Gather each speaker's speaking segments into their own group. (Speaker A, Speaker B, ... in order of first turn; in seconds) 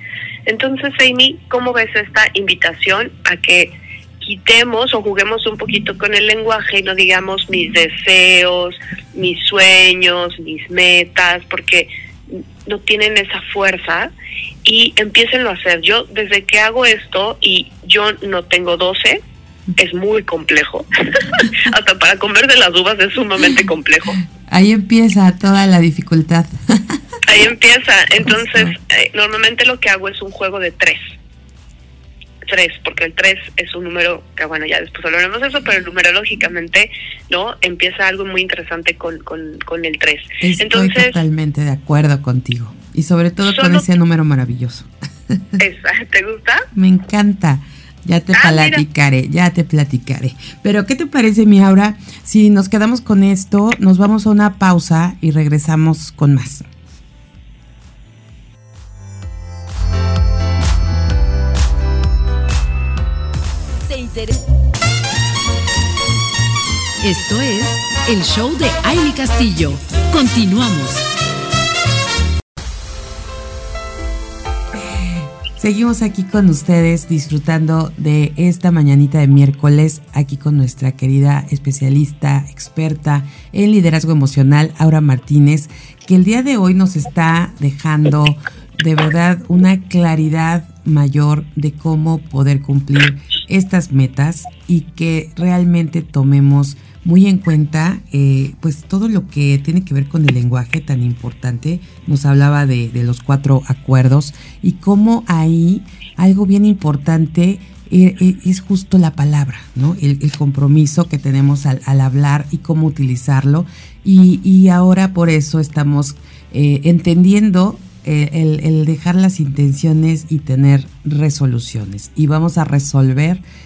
Speaker A: 0.5-14.1, 14.6-19.2, 19.8-24.2, 27.2-31.1, 32.5-41.2, 43.5-43.9, 45.6-46.7, 48.3-48.8
Speaker B: 24.4-27.0, 40.4-45.5, 46.7-56.6, 74.8-123.4
Speaker C: 63.9-64.4, 67.0-71.1